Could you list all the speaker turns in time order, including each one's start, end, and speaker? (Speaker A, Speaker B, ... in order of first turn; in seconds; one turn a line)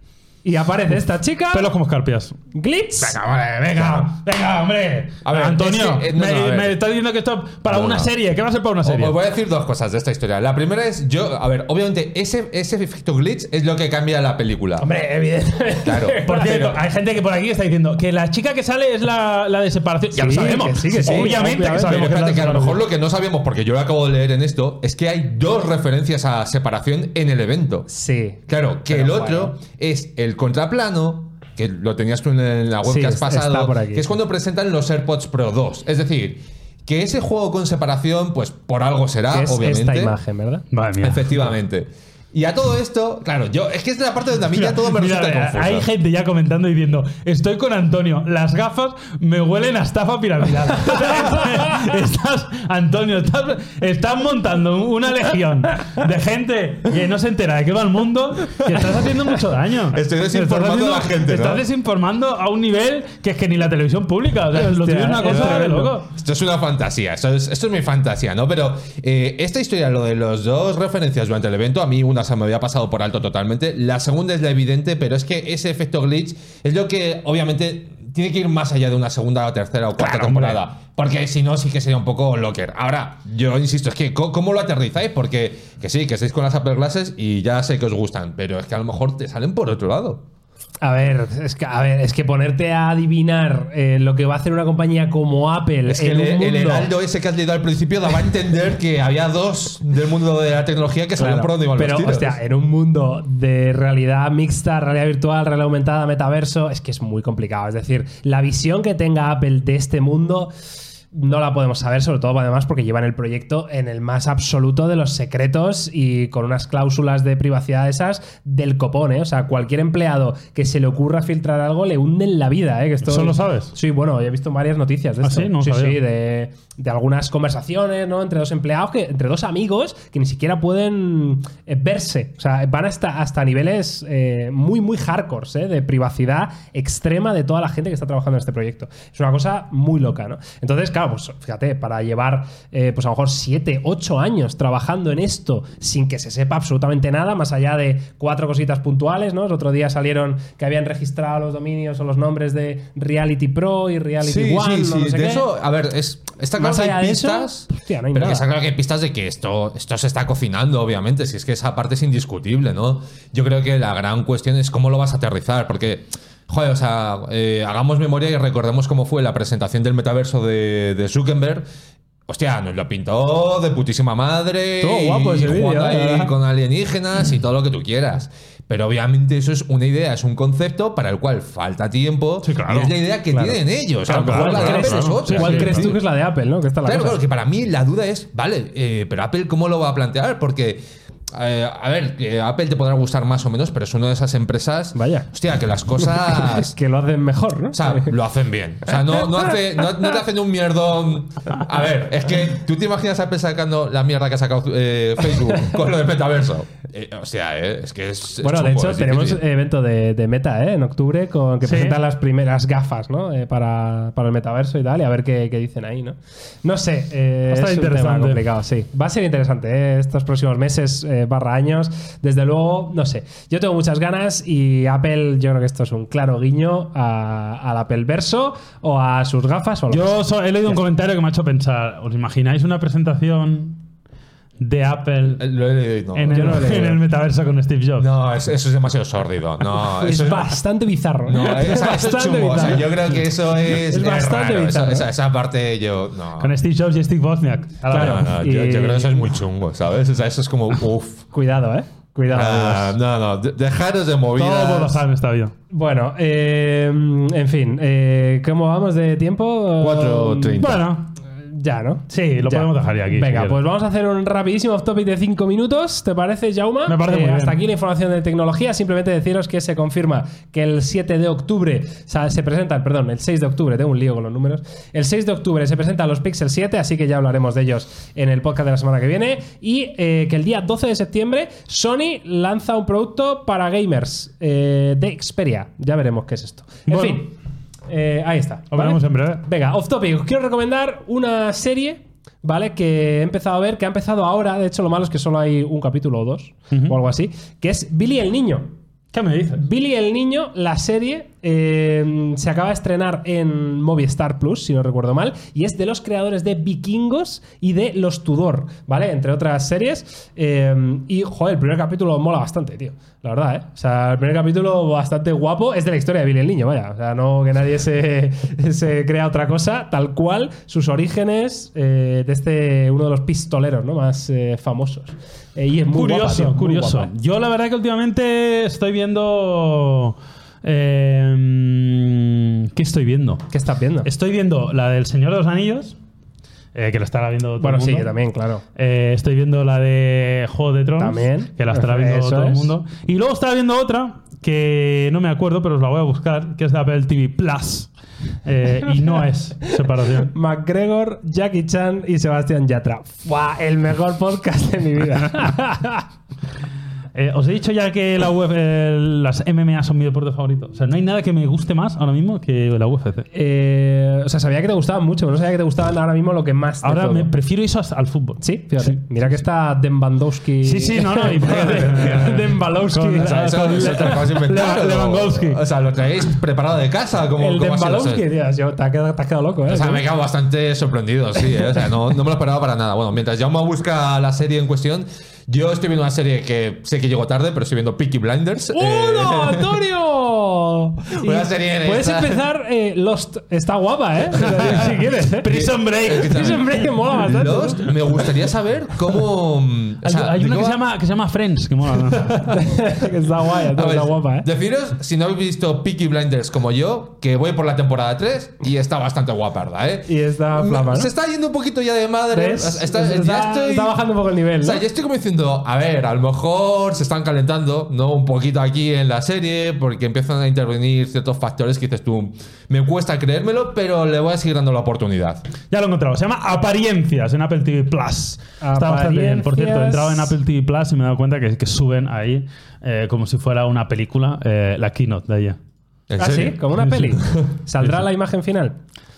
Speaker A: 0.4-1.7
Speaker B: 1.5-2.4
Speaker A: 2.5-3.2
Speaker B: 3.0-9.2
Speaker C: 3.7-4.1
Speaker C: 5.2-6.8
Speaker C: 7.7-8.1
Speaker C: 8.8-14.9
Speaker A: 14.8-16.6
Speaker C: 15.8-16.8
Speaker B: 16.3-22.8
Speaker A: 20.1-22.1
Speaker C: 21.0-27.9
Speaker A: 27.9-29.6
Speaker C: 28.5-40.2
Speaker A: 32.8-34.2
Speaker A: 39.3-40.6
Speaker B: 40.7-41.3
Speaker C: 41.0-45.9
Speaker B: 44.5-66.1
Speaker C: 59.9-61.7
Speaker A: 64.5-66.0
Speaker C: 65.2-90.2
Speaker B: 80.0-80.6
Speaker A: 90.8-96.9
Speaker C: 95.9-102.4
Speaker A: 101.2-110.5
Speaker A: 111.1-155.5
Speaker B: 123.1-123.7
Speaker B: 125.2-126.0
Speaker C: 154.2-171.7
Speaker A: 156.6-158.5
Speaker C: 172.3-186.0
Speaker A: 174.8-176.3
Speaker B: 182.4-182.9
Speaker A: 184.1-187.2
Speaker B: 184.1-186.0
Speaker C: 186.8-196.8
Speaker A: 194.9-195.3
Speaker A: 196.0-198.2
Speaker C: 197.7-209.4
Speaker A: 198.9-199.6
Speaker A: 208.4-230.8
Speaker B: 211.7-212.0
Speaker B: 217.5-218.4
Speaker B: 229.9-233.8
Speaker B: 234.6-235.4
Speaker C: 235.4-236.8
Speaker B: 236.1-238.1
Speaker A: 236.3-237.0
Speaker C: 238.0-240.5
Speaker A: 240.0-243.1
Speaker C: 241.3-246.6
Speaker A: 243.7-245.1
Speaker B: 246.4-248.3
Speaker A: 247.9-249.3
Speaker C: 247.9-251.3
Speaker A: 251.3-253.0
Speaker C: 252.3-255.0
Speaker B: 254.4-255.5
Speaker A: 255.7-260.7
Speaker C: 259.8-260.8
Speaker B: 260.6-261.1
Speaker A: 261.4-287.3
Speaker B: 262.1-263.6
Speaker B: 266.9-267.6
Speaker B: 286.9-287.2
Speaker A: 287.9-298.7
Speaker B: 288.7-289.4
Speaker B: 299.1-299.6
Speaker A: 299.6-327.1
Speaker B: 325.9-333.5
Speaker A: 333.5-334.1
Speaker B: 334.1-336.0
Speaker B: 336.8-338.2
Speaker A: 337.6-338.6
Speaker B: 338.8-347.9
Speaker A: 341.0-342.7
Speaker B: 348.4-350.3
Speaker A: 349.7-356.1
Speaker B: 357.1-363.3
Speaker A: 363.3-367.3
Speaker B: 366.8-369.3
Speaker A: 368.4-374.2
Speaker B: 370.6-375.6
Speaker C: 371.8-372.3
Speaker C: 373.1-378.2
Speaker A: 377.4-380.1
Speaker C: 379.7-389.8
Speaker A: 388.7-395.5
Speaker C: 391.2-392.4
Speaker B: 394.4-396.9
Speaker C: 394.4-400.8
Speaker A: 396.1-397.9
Speaker B: 400.0-402.5
Speaker A: 402.4-404.5
Speaker C: 403.7-414.0
Speaker A: 410.1-411.1
Speaker A: 412.3-414.8
Speaker C: 414.6-425.4
Speaker B: 425.7-435.6
Speaker A: 428.6-430.3
Speaker C: 436.1-436.6
Speaker A: 436.2-438.8
Speaker B: 436.8-437.2
Speaker C: 437.2-437.5
Speaker B: 437.8-438.1